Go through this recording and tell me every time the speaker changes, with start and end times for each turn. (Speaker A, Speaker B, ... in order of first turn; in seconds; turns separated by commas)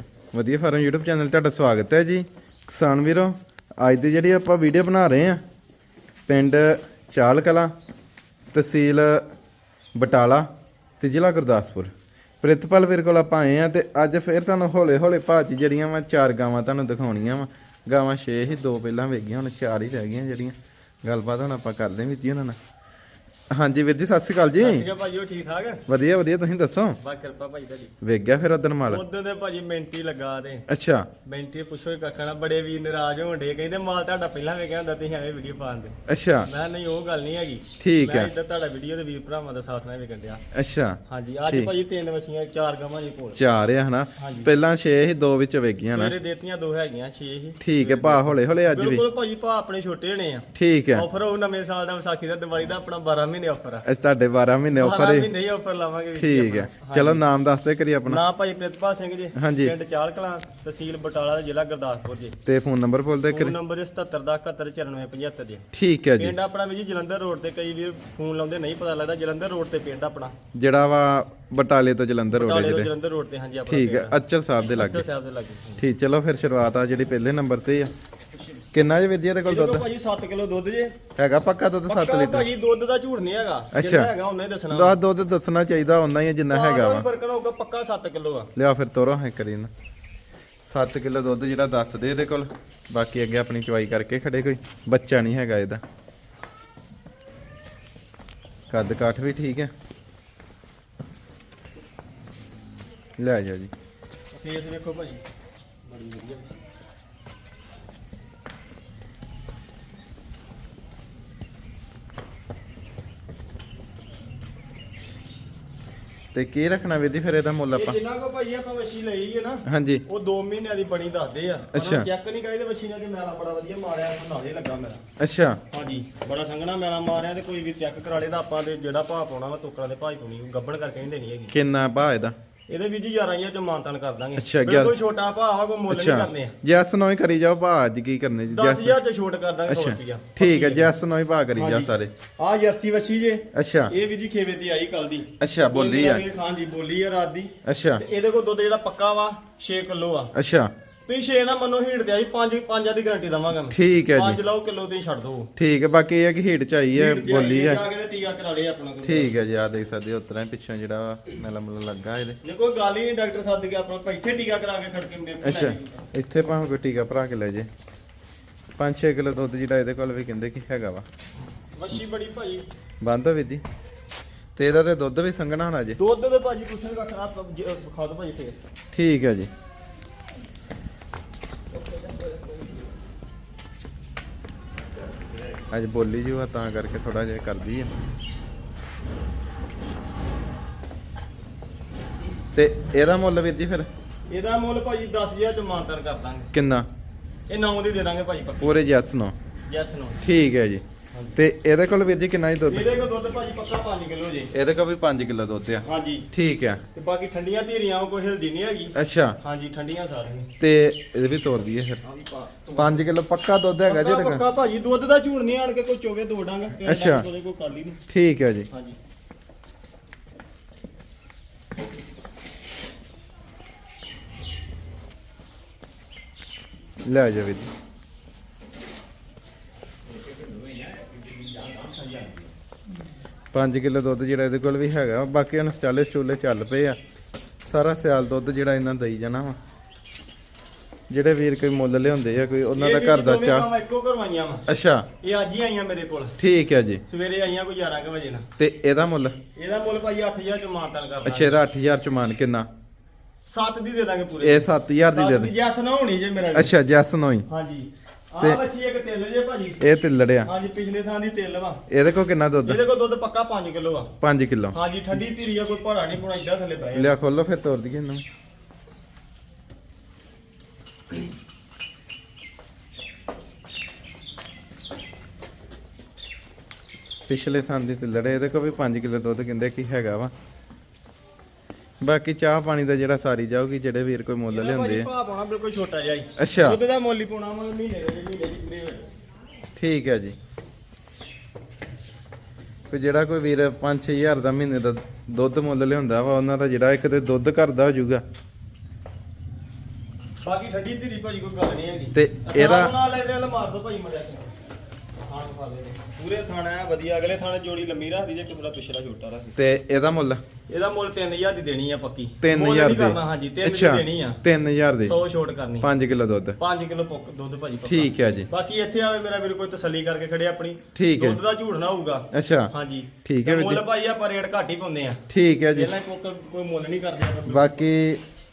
Speaker A: 0.3-5.4, Speaker A: 6.3-7.7, Speaker A: 8.5-9.2, Speaker A: 9.9-10.5, Speaker A: 11.0-22.6, Speaker A: 23.5-24.9, Speaker B: 24.6-25.8, Speaker A: 25.9-27.0, Speaker B: 27.0-27.9, Speaker A: 28.0-29.0, Speaker B: 28.9-30.7, Speaker A: 30.7-31.1, Speaker B: 31.2-40.4, Speaker A: 36.1-36.5, Speaker A: 37.8-38.3, Speaker A: 40.5-41.7, Speaker B: 41.1-43.4, Speaker A: 43.4-46.1, Speaker B: 44.2-44.5, Speaker B: 45.9-53.8, Speaker A: 47.6-49.0, Speaker A: 50.5-51.0, Speaker A: 53.9-55.3, Speaker B: 54.8-57.2, Speaker A: 56.2-58.2, Speaker B: 58.0-62.4, Speaker A: 59.4-59.7, Speaker A: 62.4-63.5, Speaker B: 63.3-65.6, Speaker A: 65.7-66.3, Speaker B: 66.2-70.3, Speaker A: 70.5-72.9, Speaker B: 72.3-75.8, Speaker A: 73.7-75.0, Speaker A: 75.8-77.9, Speaker A: 78.7-79.8, Speaker B: 79.4-81.0, Speaker A: 81.2-82.5, Speaker B: 81.9-85.0, Speaker A: 83.7-84.1, Speaker A: 84.7-87.1, Speaker B: 86.5-88.5, Speaker A: 88.5-89.7, Speaker A: 90.7-95.8, Speaker A: 98.7-99.7, Speaker A: 103.2-103.7, Speaker B: 104.4-105.2, Speaker B: 105.9-106.5, Speaker A: 116.3-118.0, Speaker B: 117.7-125.0, Speaker A: 119.7-120.0, Speaker A: 121.7-122.1, Speaker A: 125.2-125.6, Speaker B: 125.7-131.5, Speaker A: 131.5-132.3, Speaker B: 132.7-136.5, Speaker A: 134.4-134.9, Speaker A: 135.9-139.0, Speaker B: 138.5-140.9, Speaker A: 139.7-142.1, Speaker B: 141.5-150.3, Speaker A: 143.5-143.9, Speaker A: 145.4-146.2, Speaker A: 147.6-148.0, Speaker A: 150.3-150.7, Speaker B: 151.1-155.5, Speaker A: 153.7-154.4, Speaker A: 155.6-157.8, Speaker B: 156.9-159.3, Speaker A: 159.0-162.4, Speaker B: 162.4-166.0, Speaker A: 165.4-167.7, Speaker A: 168.8-171.0, Speaker B: 171.8-172.7, Speaker A: 173.0-173.6, Speaker A: 174.6-176.0, Speaker B: 176.0-178.7, Speaker A: 178.9-179.5, Speaker B: 181.7-182.8, Speaker A: 185.7-187.9, Speaker A: 192.5-193.9, Speaker B: 194.3-196.5, Speaker A: 196.5-196.9, Speaker B: 197.5-198.7, Speaker A: 198.6-199.3, Speaker B: 199.7-200.2, Speaker A: 200.2-200.8, Speaker B: 201.1-201.4, Speaker A: 201.3-202.9, Speaker B: 202.7-204.5, Speaker A: 204.5-206.8, Speaker B: 205.8-206.3, Speaker B: 206.9-210.5, Speaker A: 208.9-209.4, Speaker A: 210.6-212.0, Speaker B: 212.0-213.1, Speaker A: 212.7-214.4, Speaker B: 213.8-218.0, Speaker A: 216.8-217.3, Speaker A: 218.1-218.7, Speaker B: 218.7-218.9, Speaker A: 227.1-227.7, Speaker A: 233.5-237.0, Speaker A: 237.7-239.6, Speaker A: 241.1-243.7, Speaker B: 242.8-244.7, Speaker A: 244.7-245.1, Speaker B: 245.2-246.3, Speaker A: 246.4-247.0, Speaker B: 247.1-248.5, Speaker A: 248.6-249.3, Speaker B: 249.6-251.6, Speaker A: 251.2-252.7, Speaker B: 253.5-256.7, Speaker A: 254.4-255.5, Speaker A: 256.5-257.4, Speaker B: 257.5-259.8, Speaker A: 259.8-260.5, Speaker B: 260.4-261.8, Speaker A: 261.9-262.8, Speaker B: 262.6-264.1, Speaker A: 264.2-264.8, Speaker B: 264.7-267.1, Speaker A: 266.9-268.2, Speaker A: 277.3-280.3, Speaker A: 282.0-285.1, Speaker B: 284.5-289.1, Speaker A: 286.4-286.8, Speaker A: 289.8-290.4, Speaker A: 292.9-298.2, Speaker B: 300.4-304.5, Speaker A: 302.1-302.9, Speaker B: 305.2-309.6, Speaker A: 309.6-310.4, Speaker B: 310.7-314.4, Speaker A: 312.4-315.2, Speaker B: 315.0-315.9, Speaker A: 315.8-316.6, Speaker B: 316.6-325.2, Speaker A: 317.9-318.5, Speaker A: 320.9-321.4, Speaker A: 322.3-322.7, Speaker A: 323.2-323.8, Speaker A: 325.3-325.9, Speaker B: 325.7-327.8, Speaker A: 327.5-328.2